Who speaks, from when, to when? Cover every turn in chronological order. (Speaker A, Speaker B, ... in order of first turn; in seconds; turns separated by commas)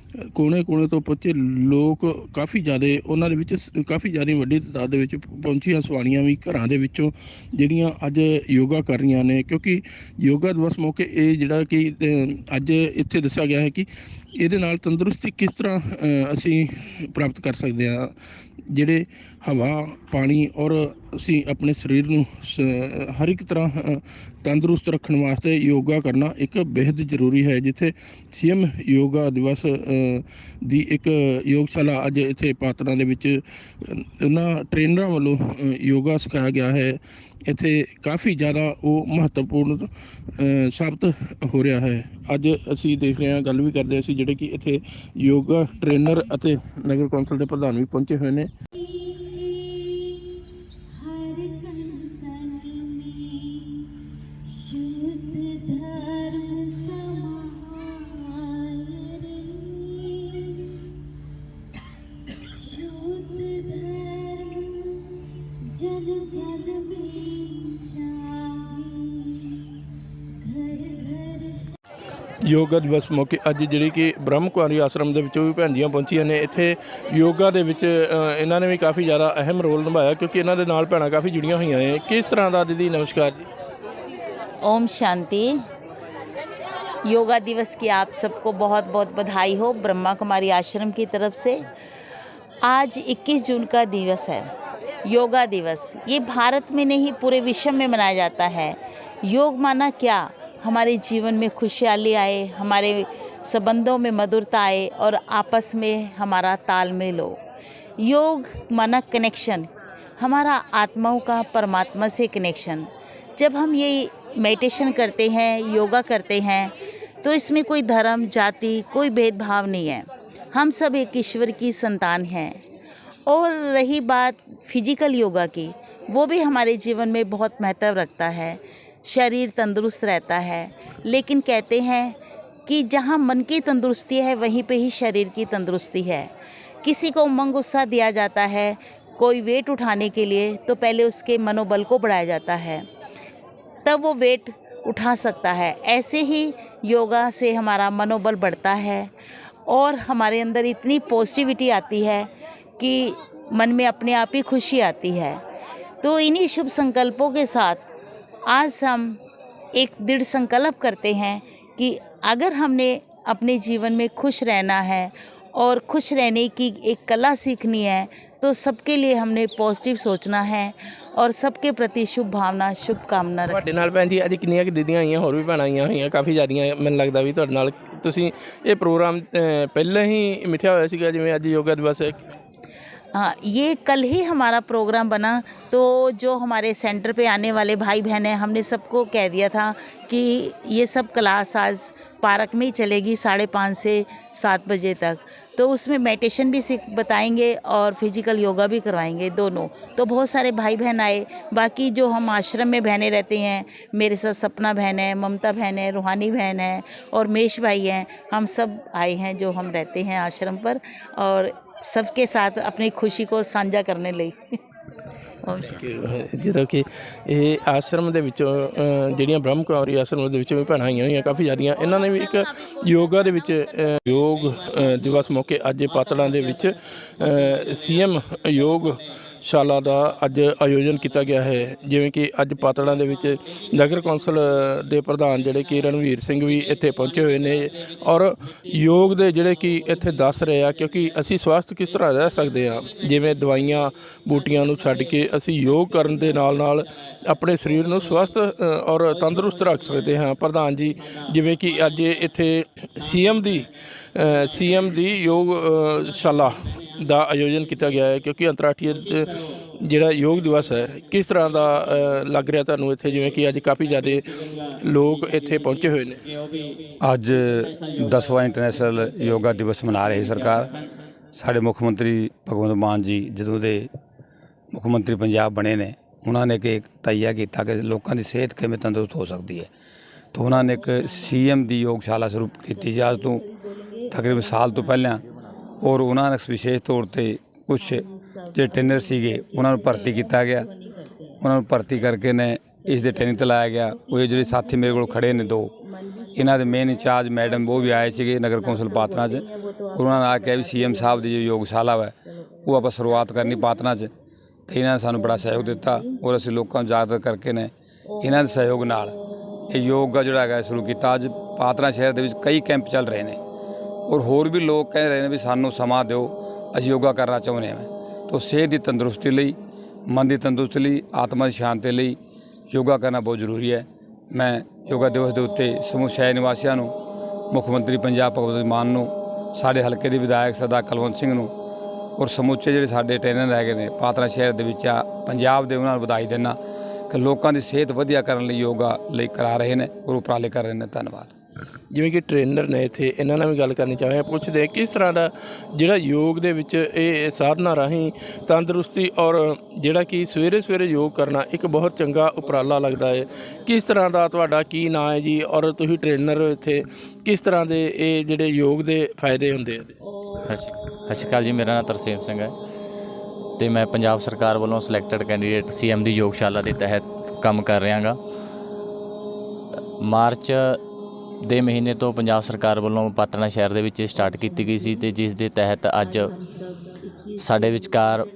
Speaker A: 0.1-18.1, Speaker A: 18.7-48.5, Speaker B: 48.9-50.0, Speaker B: 50.9-53.7, Speaker B: 54.5-60.4, Speaker B: 62.5-65.0, Speaker B: 65.7-69.5, Speaker B: 70.4-71.6, Speaker A: 72.4-83.5, Speaker B: 84.6-85.6, Speaker B: 87.0-91.6, Speaker B: 92.6-94.5, Speaker B: 95.0-107.4, Speaker B: 108.0-122.6, Speaker B: 123.3-136.3, Speaker B: 136.8-142.8, Speaker B: 143.8-149.1, Speaker B: 149.7-155.4, Speaker B: 156.0-157.8, Speaker B: 158.4-159.2, Speaker B: 159.7-173.6, Speaker A: 173.5-182.2, Speaker B: 183.1-214.5, Speaker B: 215.4-215.8, Speaker A: 215.7-266.2, Speaker C: 267.0-270.7, Speaker C: 271.3-273.9, Speaker C: 274.7-279.7, Speaker C: 280.3-283.4, Speaker C: 284.1-285.2, Speaker C: 285.8-290.7, Speaker B: 290.8-291.4, Speaker C: 291.4-295.7, Speaker B: 296.1-296.4, Speaker C: 296.4-304.1, Speaker B: 298.9-299.2, Speaker C: 304.7-309.1, Speaker C: 309.7-313.4, Speaker C: 314.1-319.6, Speaker C: 320.1-322.2, Speaker C: 322.7-326.9, Speaker C: 327.5-331.5, Speaker C: 332.2-336.6, Speaker C: 337.1-341.3, Speaker A: 341.9-359.9, Speaker D: 360.4-362.5, Speaker D: 363.6-368.2, Speaker D: 370.0-370.8, Speaker D: 371.4-376.3, Speaker D: 377.4-378.3